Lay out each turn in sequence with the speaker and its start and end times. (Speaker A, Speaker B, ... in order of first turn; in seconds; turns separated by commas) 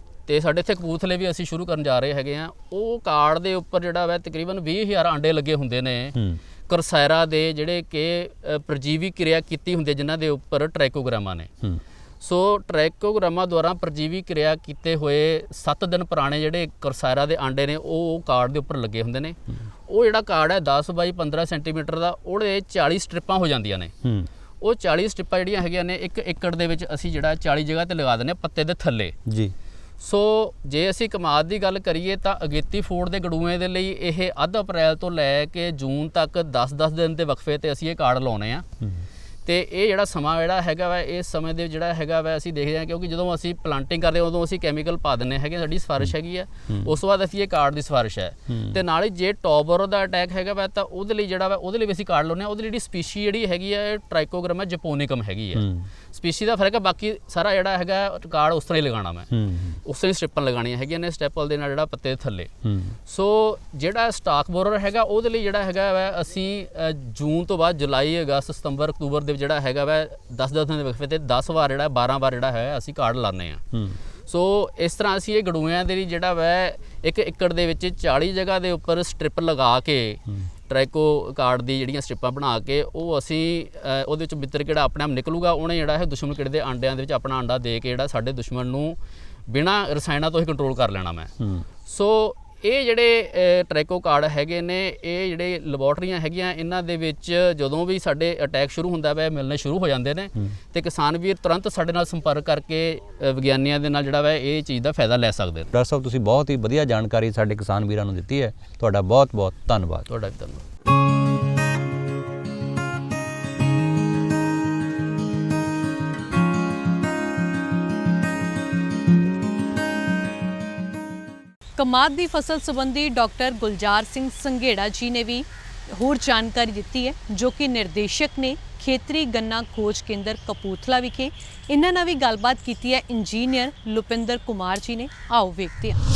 Speaker A: 0.3-6.2, Speaker B: 6.2-6.4, Speaker A: 6.7-11.5, Speaker A: 12.2-23.9, Speaker A: 24.6-29.2, Speaker B: 29.3-29.5, Speaker A: 30.0-38.7, Speaker A: 39.5-59.3, Speaker B: 48.5-48.8, Speaker B: 55.5-55.9, Speaker B: 59.3-59.8, Speaker A: 59.8-62.5, Speaker B: 62.6-63.0, Speaker A: 63.1-73.6, Speaker B: 73.7-74.0, Speaker A: 74.3-91.3, Speaker B: 91.4-91.7, Speaker A: 91.9-105.7, Speaker B: 105.7-110.1, Speaker A: 110.1-110.7, Speaker C: 121.8-136.0